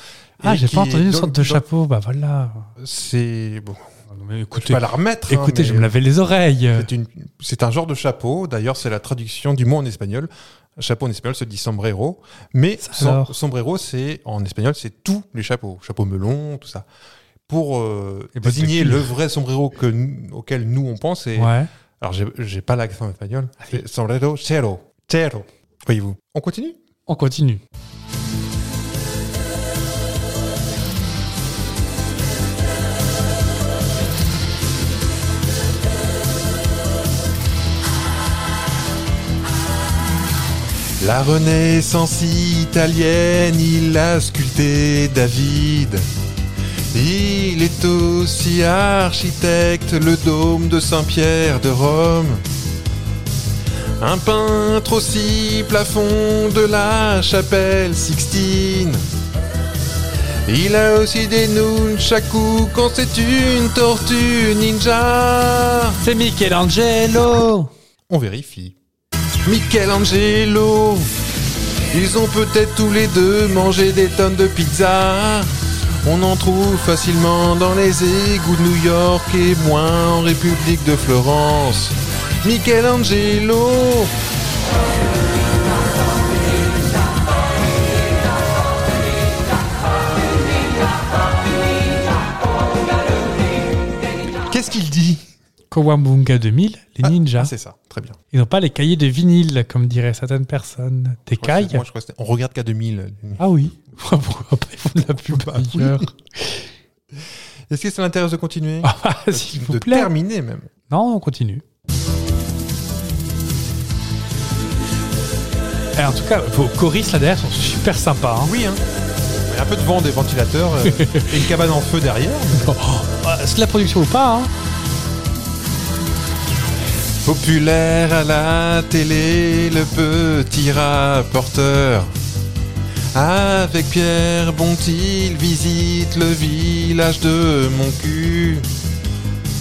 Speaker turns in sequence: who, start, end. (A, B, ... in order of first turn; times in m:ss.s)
0:00.4-0:01.6 A
0:00.4-0:02.7 B
0:02.8-0:03.9 A
0:04.1-0:06.9 B
0:04.5-0:05.9 A
0:06.7-0:16.8 A
0:12.8-0:13.3 B
0:17.5-0:26.8 A
0:18.4-0:19.1 B
0:21.4-0:21.7 B
0:27.1-0:27.6 B
0:41.0-0:46.1 A
0:46.9-0:52.4 A
0:54.0-0:59.0 A
1:00.5-1:06.0 A
1:06.0-1:07.7 B
1:08.1-1:08.8 A
1:09.4-1:11.1 A
1:11.9-1:15.5 A
1:16.0-1:24.1 A
1:34.4-1:35.2 A
1:35.7-1:37.5 B
1:37.0-1:38.2 A
1:38.3-1:41.8 B
1:41.4-1:43.6 A
1:43.4-1:46.7 B
1:45.3-1:46.1 A
1:47.1-1:50.7 A
1:48.8-1:50.1 B
1:50.9-1:51.6 B
1:56.0-1:58.5 B
1:58.4-1:58.8 A
1:59.5-2:02.7 A
2:00.8-2:01.4 B
2:02.5-2:04.5 B
2:07.2-2:12.1 A
2:13.1-2:18.7 A